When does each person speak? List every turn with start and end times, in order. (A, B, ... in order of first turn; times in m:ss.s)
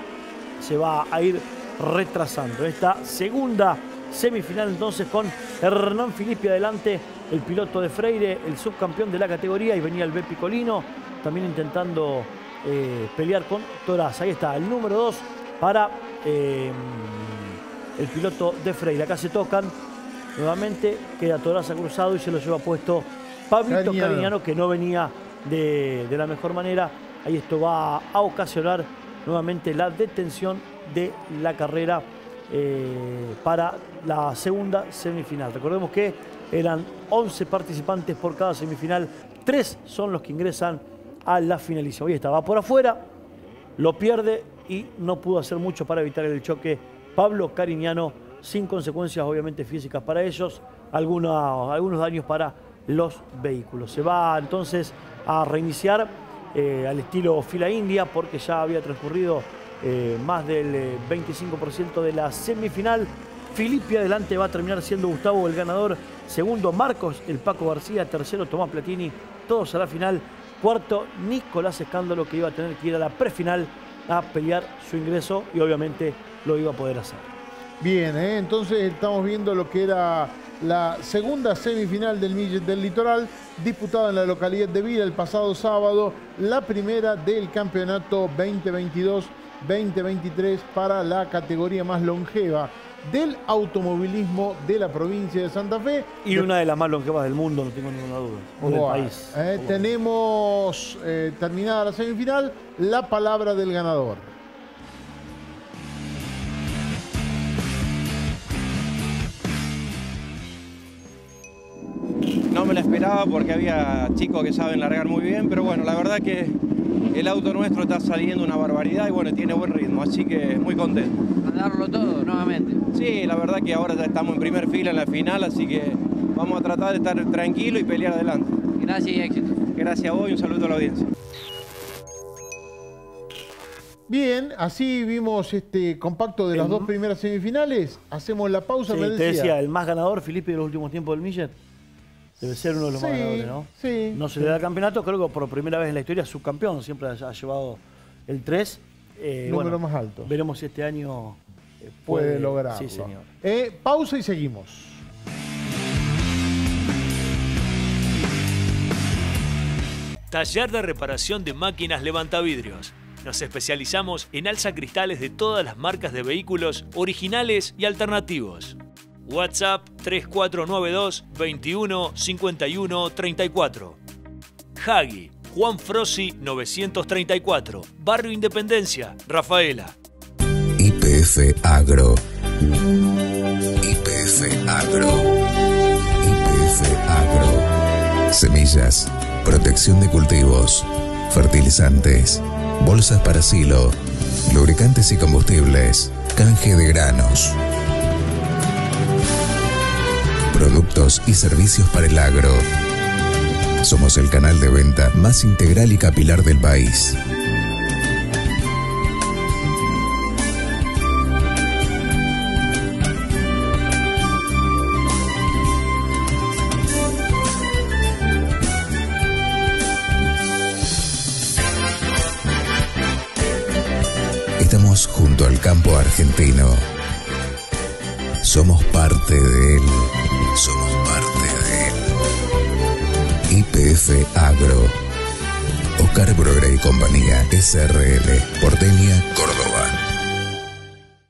0:00.6-0:19.7 A
0:20.4-0:43.1 A
0:23.7-0:24.3 B
0:43.8-1:17.3 A
1:17.8-1:36.5 B
1:36.2-1:39.9 A
1:38.6-1:44.4 B
1:52.5-1:56.6 C
1:57.1-2:01.2 C
2:01.4-2:02.8 D
2:02.9-2:08.5 C
2:08.8-2:09.6 D
2:09.7-2:11.1 C
2:14.1-2:19.6 B
2:16.5-2:16.9 A
2:18.9-2:21.6 A
2:22.4-2:24.6 B
2:22.4-2:33.3 A
2:29.4-2:30.3 B
2:32.1-2:35.0 B
2:40.3-2:54.0 E
2:54.8-3:00.0 E
3:00.8-3:02.2 F
3:03.8-3:05.3 F
3:06.2-3:07.7 F
3:08.3-3:14.0 F
3:14.5-3:17.6 F
3:20.5-3:22.6 F
3:23.8-3:27.2 F
3:44.6-3:46.8 F
3:48.4-3:52.0 F
3:53.5-3:55.0 F
3:56.0-4:00.0 F